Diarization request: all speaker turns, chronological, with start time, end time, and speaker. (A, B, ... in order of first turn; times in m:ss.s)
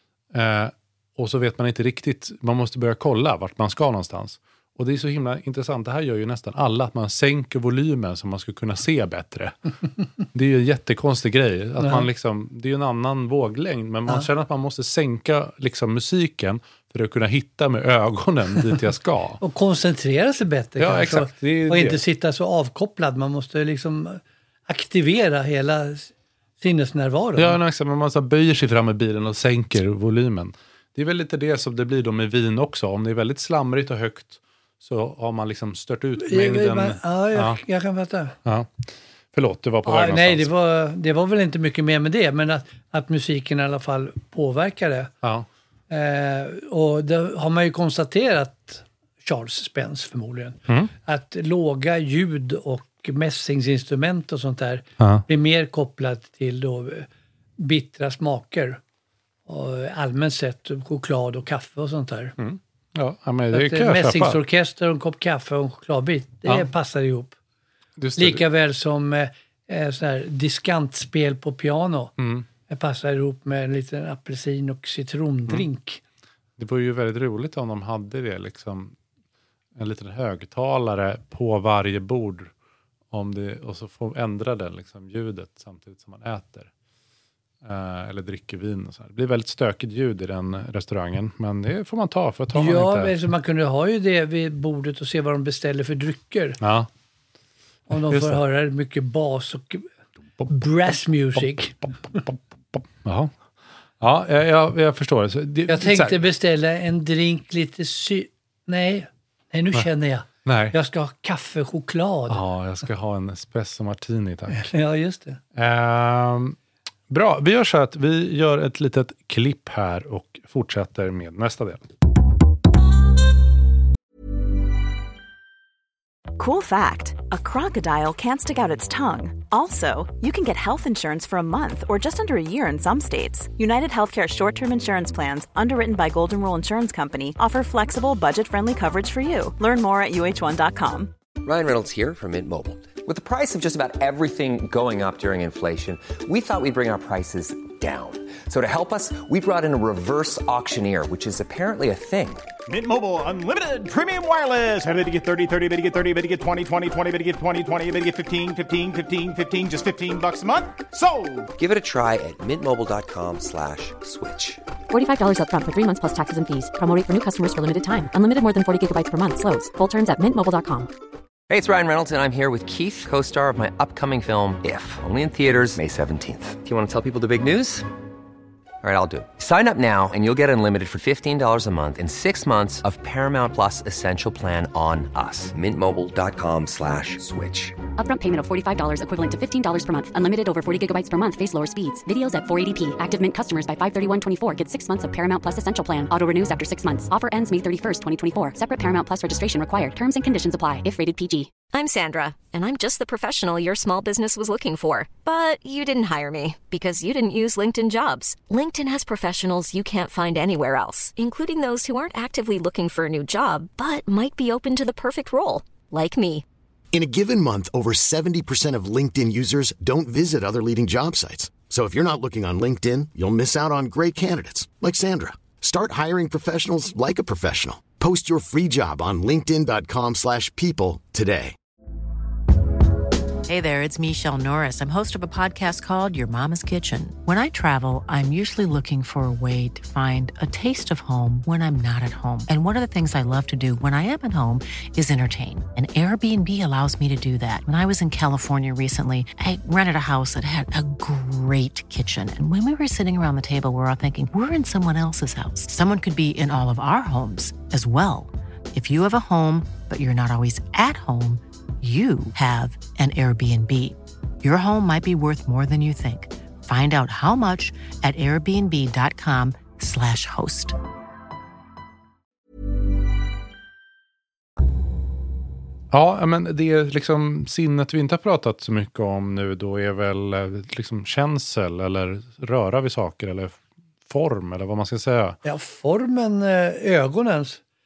0:00.3-0:09.6 A
0:10.3-0:19.4 A
0:11.8-0:12.0 B
0:19.4-0:27.6 B
0:20.8-0:22.0 A
0:27.4-0:37.6 A
0:36.2-0:38.3 B
0:38.4-0:40.5 A
0:39.8-0:45.1 B
0:45.9-0:57.1 B
0:55.0-0:55.2 A
0:57.6-0:58.8 B
0:59.5-1:02.4 B
1:02.4-1:04.4 A
1:03.5-1:07.4 B
1:08.0-1:08.4 A
1:08.2-1:12.1 B
1:12.2-1:12.5 A
1:12.7-1:16.0 B
1:16.6-1:19.0 A
1:19.8-1:22.5 A
1:23.1-1:26.7 A
1:27.6-1:33.1 A
1:32.5-1:36.6 B
1:36.6-1:36.9 A
1:37.9-1:39.9 B
1:37.9-1:38.4 A
1:40.5-1:42.2 B
1:42.3-1:43.4 A
1:44.0-1:46.2 A
1:45.7-1:52.4 B
1:50.4-1:50.8 A
1:52.3-1:54.6 A
1:54.5-1:55.4 B
1:55.5-1:56.6 A
1:57.1-2:01.9 A
2:06.4-2:21.1 C
2:21.4-2:32.4 D
2:32.7-2:41.5 E
2:41.6-2:44.6 D
2:44.9-2:50.9 F
2:51.5-2:57.8 D
2:58.8-3:07.8 D
3:08.0-3:21.5 F
3:21.7-3:36.4 G
3:36.9-3:51.5 H
3:53.5-4:30.8 I
4:35.9-4:45.4 A
4:45.4-4:47.6 B